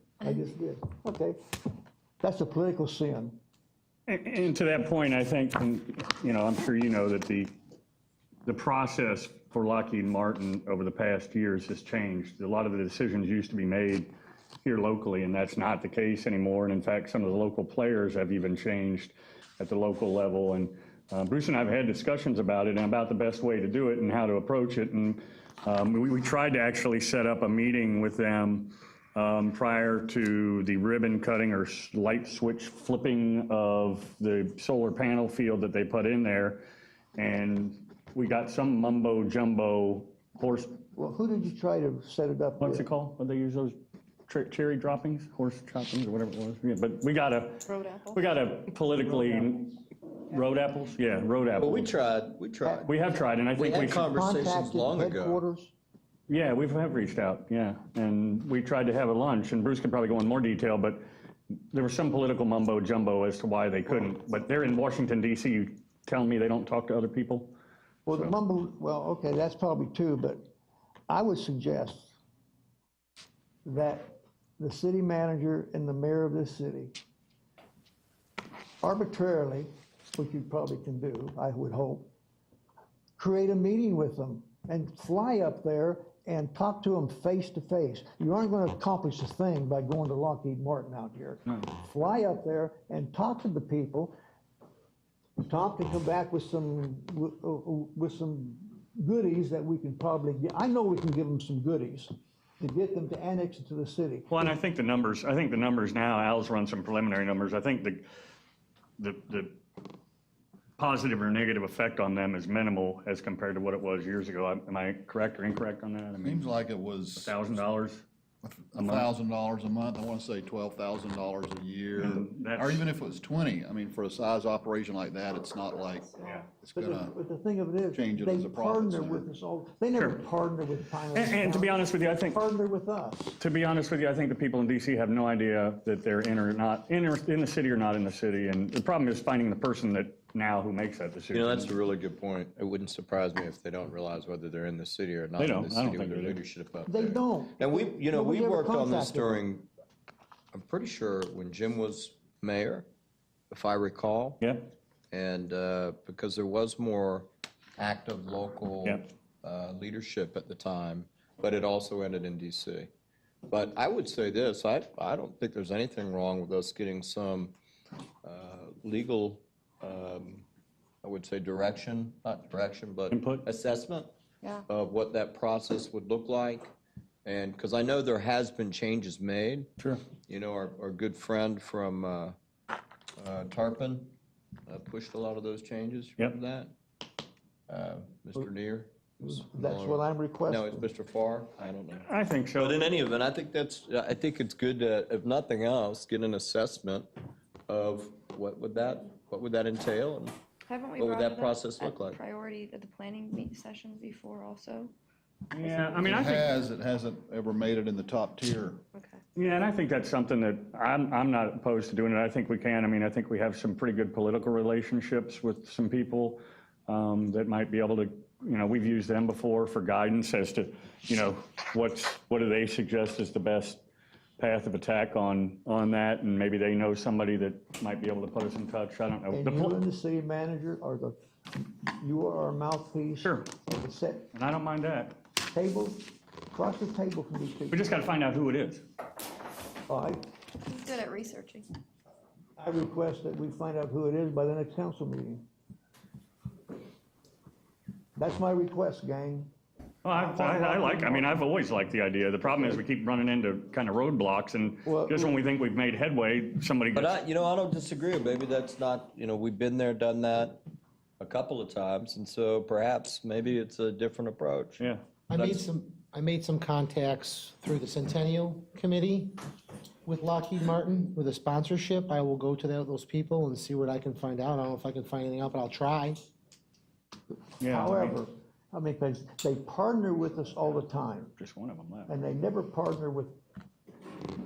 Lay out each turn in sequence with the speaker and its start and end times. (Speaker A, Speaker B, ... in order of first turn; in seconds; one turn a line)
Speaker A: 0.2-1.4
Speaker A: 2.2-3.4
Speaker B: 4.1-7.5
Speaker B: 8.5-14.1
Speaker B: 14.7-36.7
Speaker B: 37.2-40.8
Speaker A: 41.0-42.9
Speaker B: 42.6-49.7
Speaker C: 47.7-48.2
Speaker A: 49.0-49.6
Speaker B: 50.3-51.9
Speaker D: 51.6-53.0
Speaker A: 52.6-52.9
Speaker B: 52.9-54.1
Speaker D: 53.5-55.4
Speaker A: 54.0-55.7
Speaker B: 56.3-61.0
Speaker B: 61.7-67.5
Speaker A: 68.1-70.5
Speaker A: 71.1-72.1
Speaker A: 73.7-77.0
Speaker A: 78.8-82.1
Speaker A: 83.2-94.2
Speaker A: 95.4-104.5
Speaker B: 104.3-108.0
Speaker B: 109.0-109.6
Speaker B: 110.8-116.5
Speaker E: 116.2-117.6
Speaker B: 117.2-118.0
Speaker E: 118.4-127.2
Speaker B: 118.8-119.1
Speaker B: 122.0-122.9
Speaker A: 126.7-133.4
Speaker E: 127.9-129.3
Speaker B: 131.1-132.4
Speaker B: 133.4-141.8
Speaker D: 141.3-149.7
Speaker B: 145.4-146.4
Speaker A: 146.9-149.4
Speaker D: 150.5-152.9
Speaker D: 153.5-154.4
Speaker D: 155.1-162.9
Speaker D: 163.5-167.5
Speaker D: 168.2-170.4
Speaker D: 171.0-174.1
Speaker B: 173.1-173.5
Speaker D: 174.7-176.7
Speaker D: 177.2-179.7
Speaker D: 180.3-182.4
Speaker D: 183.2-184.1
Speaker D: 184.7-186.7
Speaker D: 187.7-197.1
Speaker A: 189.2-190.9
Speaker B: 192.1-192.8
Speaker D: 197.7-200.4
Speaker C: 200.7-204.9
Speaker D: 201.0-202.2
Speaker B: 205.5-206.6
Speaker E: 206.0-208.8
Speaker C: 208.9-209.2
Speaker B: 209.4-223.8
Speaker B: 224.4-229.8
Speaker A: 229.3-234.3
Speaker B: 233.2-233.5
Speaker B: 234.3-235.2
Speaker A: 235.5-237.8
Speaker B: 237.7-238.8
Speaker A: 239.9-240.3
Speaker C: 240.6-241.7
Speaker A: 242.6-245.4
Speaker A: 248.2-249.5
Speaker B: 250.1-257.2
Speaker A: 250.1-251.4
Speaker A: 252.4-252.8
Speaker A: 254.9-255.4
Speaker D: 256.9-260.6
Speaker D: 261.2-265.6
Speaker F: 265.3-269.5
Speaker F: 270.1-276.2
Speaker B: 277.6-278.2
Speaker A: 277.6-281.3
Speaker B: 281.3-282.1
Speaker A: 282.1-283.4